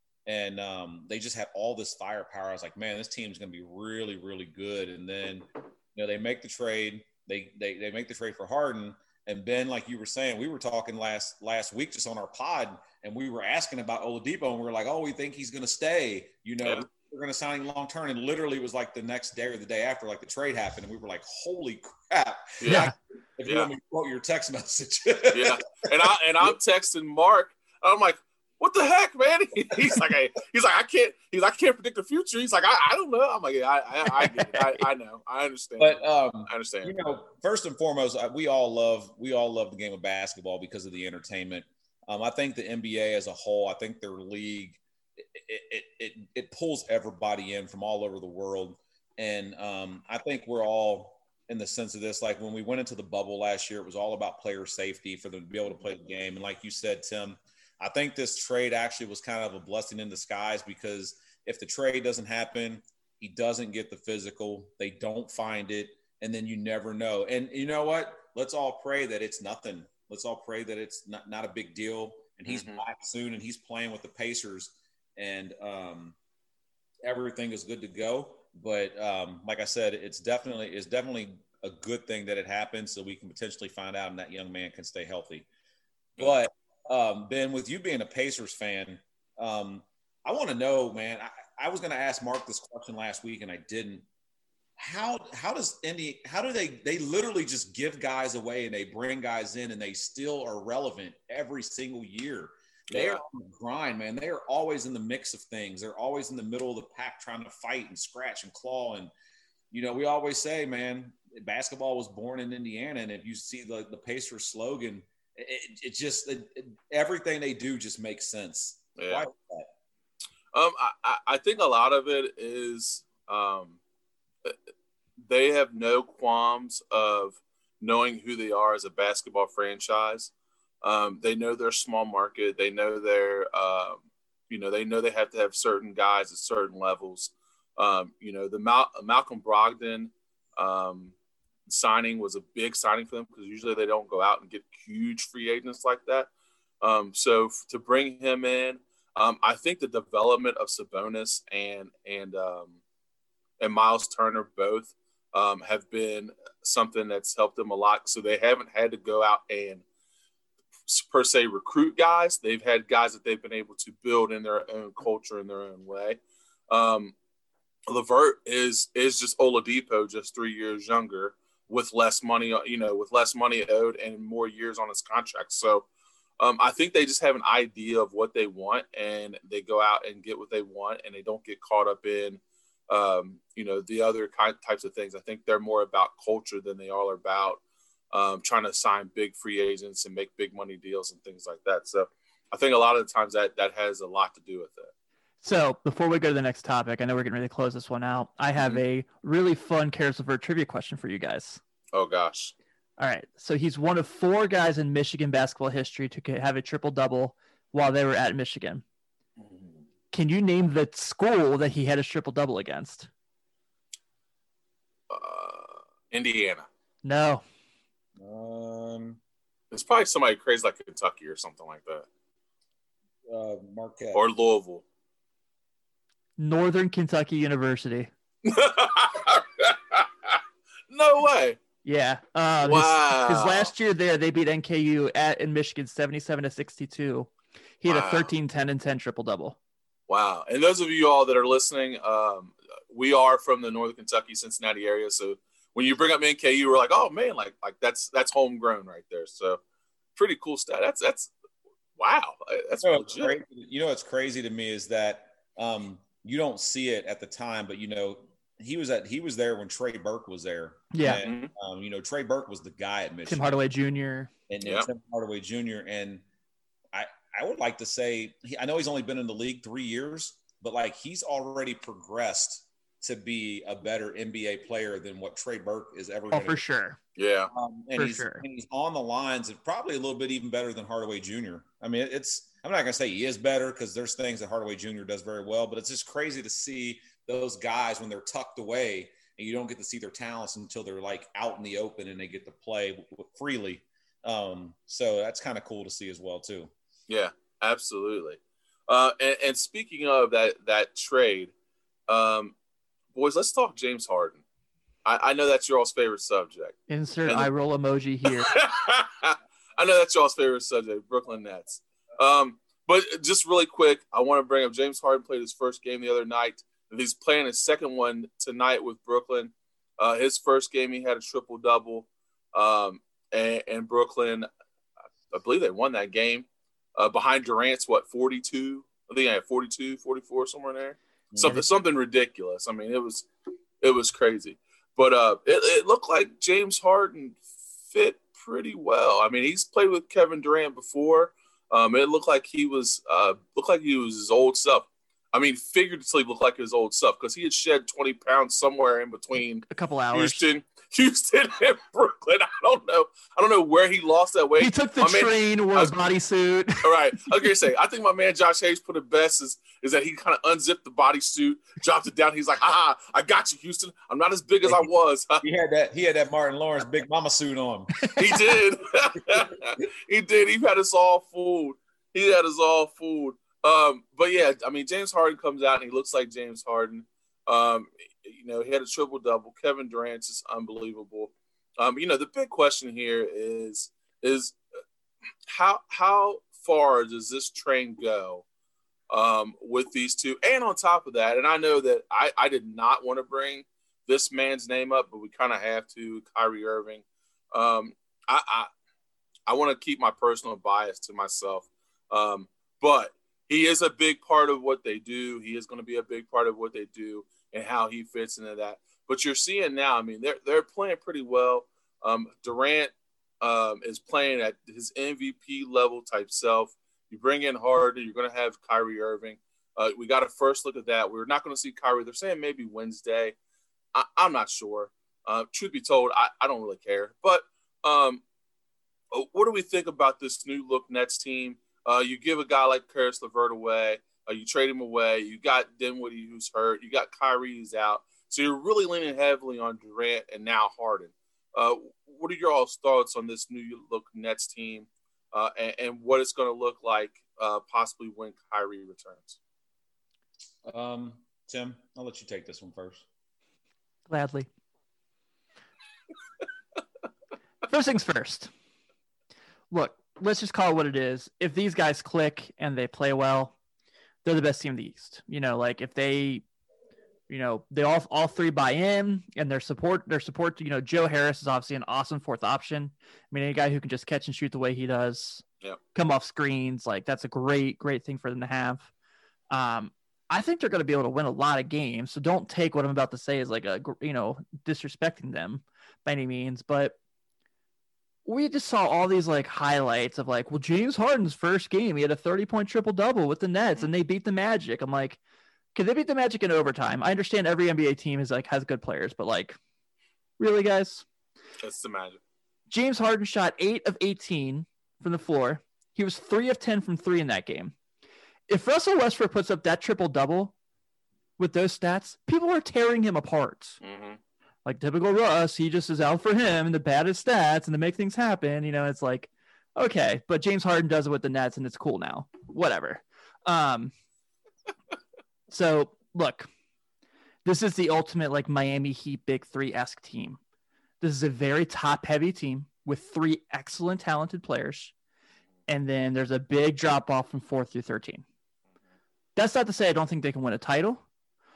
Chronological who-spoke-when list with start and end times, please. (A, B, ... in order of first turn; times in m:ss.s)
0:00.2-0:26.1 A
0:22.6-0:22.9 B
0:22.7-0:22.9 C
0:25.3-0:36.9 B
0:34.2-0:34.6 C
0:35.8-1:16.2 A
1:12.5-1:12.8 B
1:17.0-1:25.5 A
1:26.2-1:34.0 A
1:34.8-1:49.1 A
1:42.9-1:43.2 B
1:49.7-1:59.7 A
1:59.0-1:59.2 B
2:00.5-2:03.8 B
2:05.2-2:10.3 B
2:10.8-2:21.1 B
2:21.7-2:26.3 B
2:26.8-2:32.8 B
2:33.6-2:39.8 B
2:40.9-2:47.1 B
2:47.9-2:55.9 B
2:56.4-3:07.6 B
3:08.1-3:14.9 B
3:15.4-3:21.6 C
3:21.9-3:22.5 B
3:23.0-3:28.8 C
3:30.1-3:33.1 C
3:35.1-3:36.7 B
3:37.0-3:37.4 C
3:38.2-3:39.2 A
3:39.7-3:42.0 B
3:43.2-3:44.2 A
3:44.1-3:44.8 B
3:46.4-3:48.1 C
3:48.4-3:51.6 B
3:51.8-3:57.3 C
3:52.6-3:53.7 B
3:57.8-3:59.6 C
3:57.9-3:58.3 B
4:00.1-4:09.6 B
4:10.2-4:11.3 B
4:12.0-4:13.4 B
4:12.8-4:23.5 A
4:20.9-4:21.2 C
4:21.2-4:21.5 B
4:23.3-4:24.3 C
4:24.5-4:26.2 A
4:26.9-4:36.6 A
4:36.3-4:37.0 C
4:37.2-4:37.5 B
4:37.5-4:56.7 A
4:38.0-4:38.4 C
4:57.1-5:01.5 B
5:02.1-5:02.5 B
5:03.1-5:04.4 B
5:05.0-5:07.5 B
5:06.9-5:08.5 C
5:08.3-5:24.5 B
5:25.3-5:33.3 B
5:33.8-5:56.0 B
5:49.7-5:50.4 C
5:54.6-5:56.9 C
5:56.8-6:05.4 B
6:05.4-6:08.0 A
6:08.0-6:08.4 C
6:08.1-6:24.6 B
6:25.5-6:28.4 B
6:29.1-6:38.7 B
6:39.5-7:03.4 B
7:03.9-7:08.2 B
7:09.1-7:29.4 B
7:30.6-7:33.0 A
7:34.1-7:34.5 C
7:37.7-7:38.5 C
7:39.7-7:43.5 C
7:44.2-7:46.4 C
7:47.3-7:55.4 C
7:55.9-7:58.9 C
7:59.5-8:07.0 C
8:08.2-8:15.2 C
8:15.7-8:19.6 C
8:20.4-8:21.0 C
8:21.6-8:22.2 B
8:22.7-8:27.7 C
8:28.5-8:30.5 C
8:31.4-8:33.8 C
8:33.8-8:34.2 B
8:34.6-8:43.9 C
8:45.5-8:46.5 C
8:47.4-8:50.4 C
8:51.0-8:54.9 C
8:55.7-8:58.2 C
8:59.4-9:01.0 C